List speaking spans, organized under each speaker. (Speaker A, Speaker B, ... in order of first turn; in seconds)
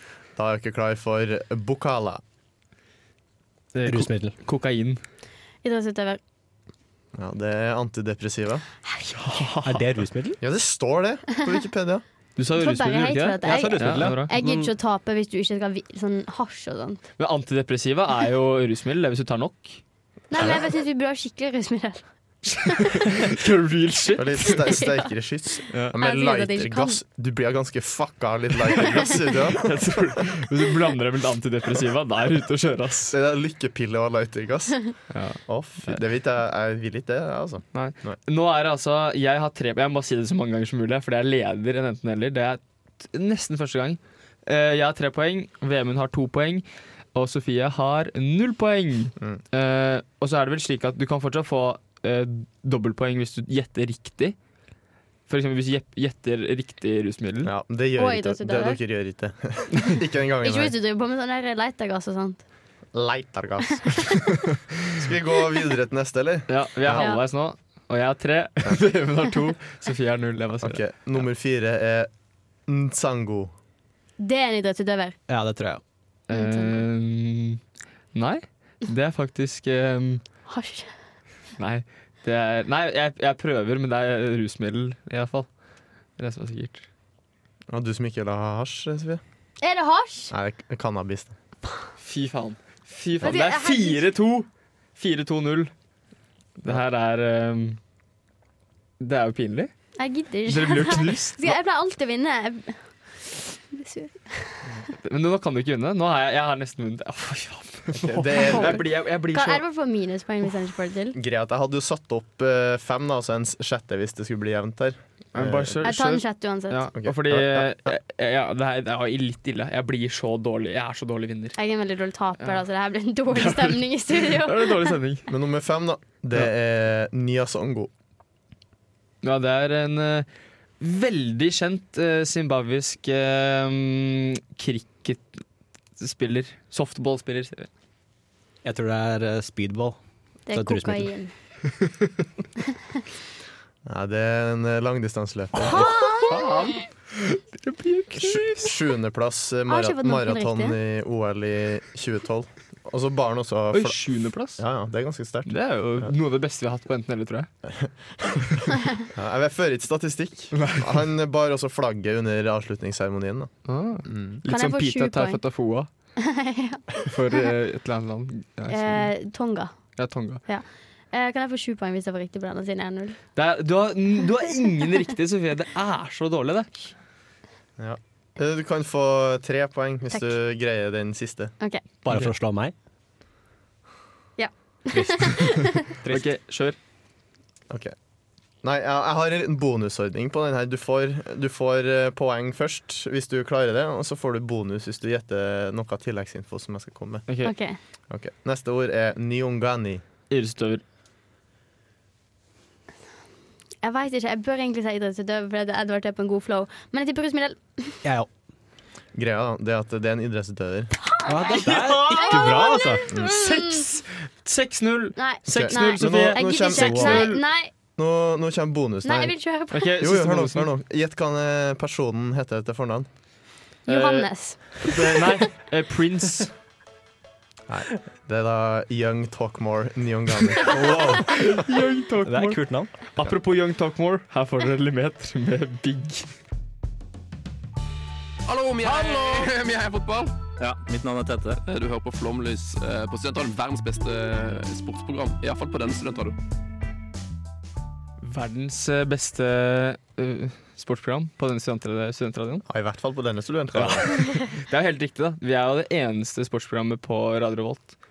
Speaker A: 0.4-2.2, 7.1-8.6, 10.4-12.0, 24.1-30.0, 33.1-34.9, 35.5-38.2, 57.4-60.7, 62.9-64.2, 64.9-67.1, 70.6-72.1, 72.7-73.5, 87.7-89.2, 90.3-91.3, 107.9-108.8, 111.1-115.8, 116.9-117.9, 125.3-127.9, 143.8-146.1, 148.2-154.0, 154.5-156.1, 157.7-158.6, 159.1-164.4, 177.8-181.5, 188.6-197.2, 198.1-200.0, 209.1-210.9, 215.5-217.3, 218.0-219.3, 220.0-223.1, 227.7-230.8, 252.7-254.2
Speaker B: 3.7-5.0, 9.2-9.9, 12.4-14.4, 17.2-19.8, 22.8-24.7, 28.8-33.1, 35.1-36.0, 37.7-54.4, 55.3-57.5, 66.5-70.8, 76.3-77.6, 78.1-80.2, 81.6-85.5, 86.2-86.9, 92.0-95.7, 96.6-97.8, 99.0-99.7, 100.5-101.6, 105.0-109.6, 115.3-121.6, 123.3-125.3, 129.2-130.3, 130.8-135.4, 136.0-137.7, 145.7-148.7, 153.7-154.6, 155.4-157.5, 160.6-160.8, 163.7-165.9, 167.1-169.1, 169.9-170.4, 173.3-176.9, 186.1-186.8, 197.3-197.5, 200.3-200.8, 211.6-217.4, 219.7-220.7, 223.9-226.5, 231.2-236.3, 248.2-252.6, 253.7-258.0
Speaker C: 3.9-4.3, 9.6-10.4, 13.4-14.7, 75.3-75.8, 138.6-140.0, 140.5-141.1, 182.0-182.7, 184.9-186.3, 208.0-208.3, 211.2-213.0, 230.7-231.4, 232.2-232.9
Speaker D: 5.6-6.2, 12.6-17.0, 20.3-22.1, 22.6-22.9, 24.7-25.1, 26.0-27.0, 58.0-58.8, 60.4-62.4, 67.0-67.2, 74.2-75.2, 76.3-76.8, 80.5-80.9, 89.6-90.3, 93.2-94.1, 100.0-104.7, 109.3-111.2, 115.8-116.9, 121.6-125.0, 140.5-141.3, 145.7-146.6, 149.7-150.8, 164.5-165.4, 166.2-167.5, 168.7-169.9, 170.4-173.2, 184.4-185.9, 197.4-197.8, 203.8-208.0, 211.0-213.8, 215.2-217.7, 219.0-219.9, 223.9-225.0
Speaker E: 238.5-240.3, 241.5-246.3